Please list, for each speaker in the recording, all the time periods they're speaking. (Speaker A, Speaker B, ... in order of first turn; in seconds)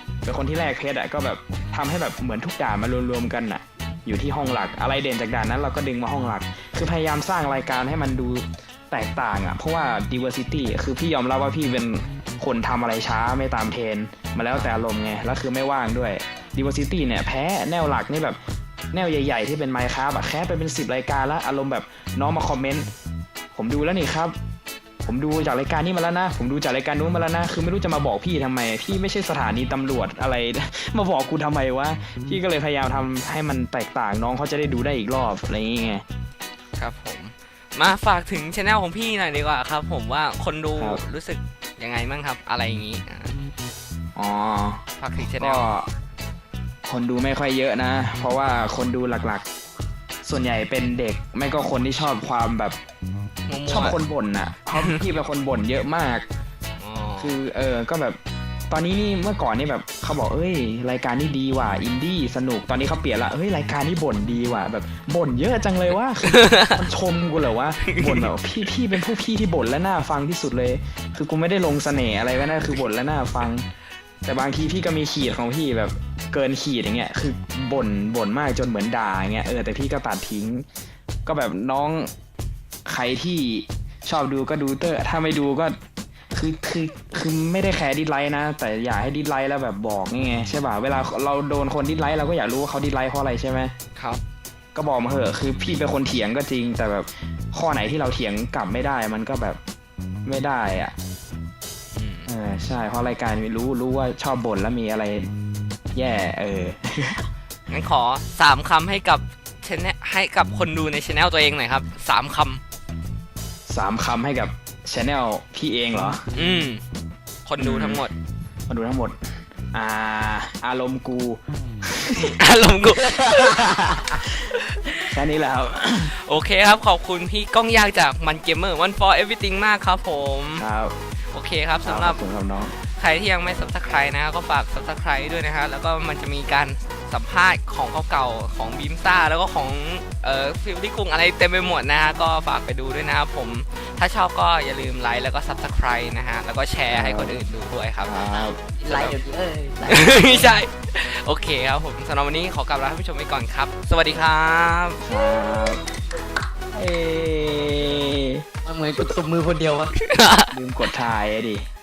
Speaker A: 0.2-18.4, 18.9-22.9, 23.5-24.4, 25.1-36.0, 44.2-45.9, 46.9-49.5, 50.2-52.8, 53.7-56.3, 57.2-58.2, 58.7-73.7, 74.2-80.7, 81.3-82.1, 82.9-85.8, 86.3-93.7, 94.8-99.6, 100.2-100.9, 102.3-105.3, 105.9-107.2, 113.7-116.2, 117.6-118.0, 118.7-119.2, 119.7-122.4, 125.0-126.1, 130.6-130.9, 131.8-132.7, 146.9-147.4, 148.0-148.6, 155.0-155.8, 156.7-158.4, 160.5-161.6
Speaker B: 36.8-43.4, 45.0-45.7, 53.5-54.0, 54.8-55.0, 56.8-57.4, 66.2-66.8, 67.8-68.3, 94.0-94.2, 102.0-102.3, 107.7-112.6, 116.3-116.8, 117.5-118.1, 122.4-125.1, 126.1-130.7, 131.3-132.2, 133.0-148.2, 148.9-149.2, 149.9-155.0, 160.0-160.5
Speaker C: 123.2-124.2, 148.6-150.6, 158.7-159.9